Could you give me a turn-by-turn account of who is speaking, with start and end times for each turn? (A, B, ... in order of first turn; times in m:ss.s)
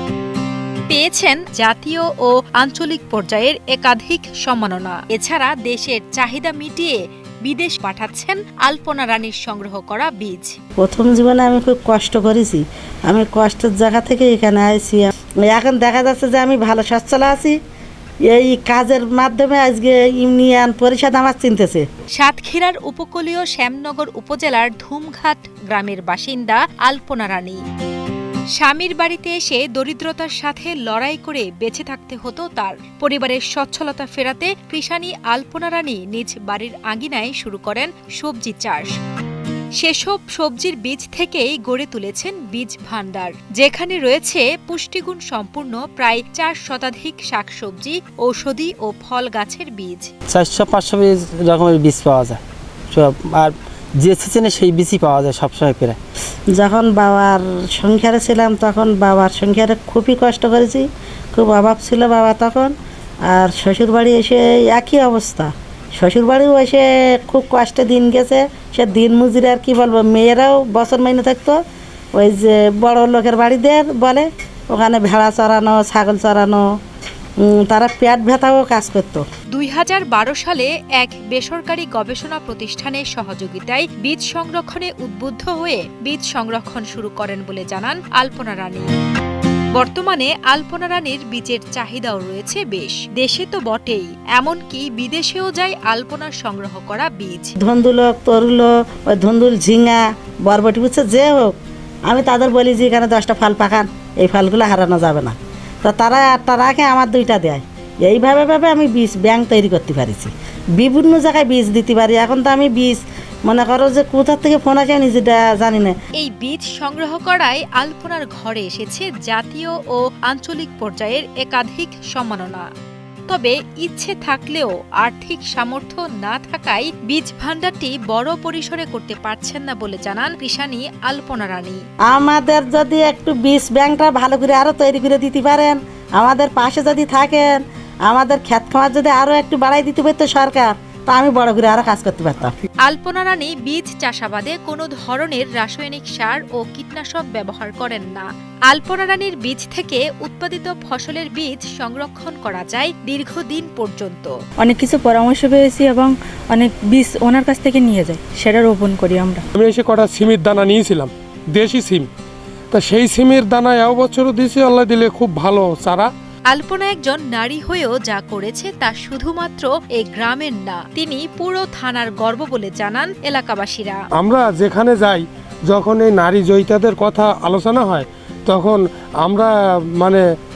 0:00.9-0:10.6 A
0:10.8-0:17.6 B
0:18.3-0:21.8 B
0:22.2-0:27.6 A
0:28.6-0:38.9 A
0:39.8-0:50.1 A
0:50.3-0:52.4 C
0:52.9-0:56.0 C
0:56.6-1:02.7 B
1:03.3-1:11.6 B
1:12.2-1:16.6 B
1:17.4-1:19.2 B
1:19.5-1:28.9 A
1:29.8-1:37.5 A
1:37.6-1:41.6 B
1:42.1-1:56.0 B
1:56.2-2:02.6 A
2:03.3-2:11.8 A
2:12.1-2:22.5 B
2:22.8-2:34.3 A
2:34.6-2:39.4 D
2:39.6-2:42.1 E
2:42.7-2:46.1 E
2:46.5-2:54.0 A
2:54.2-3:00.2 E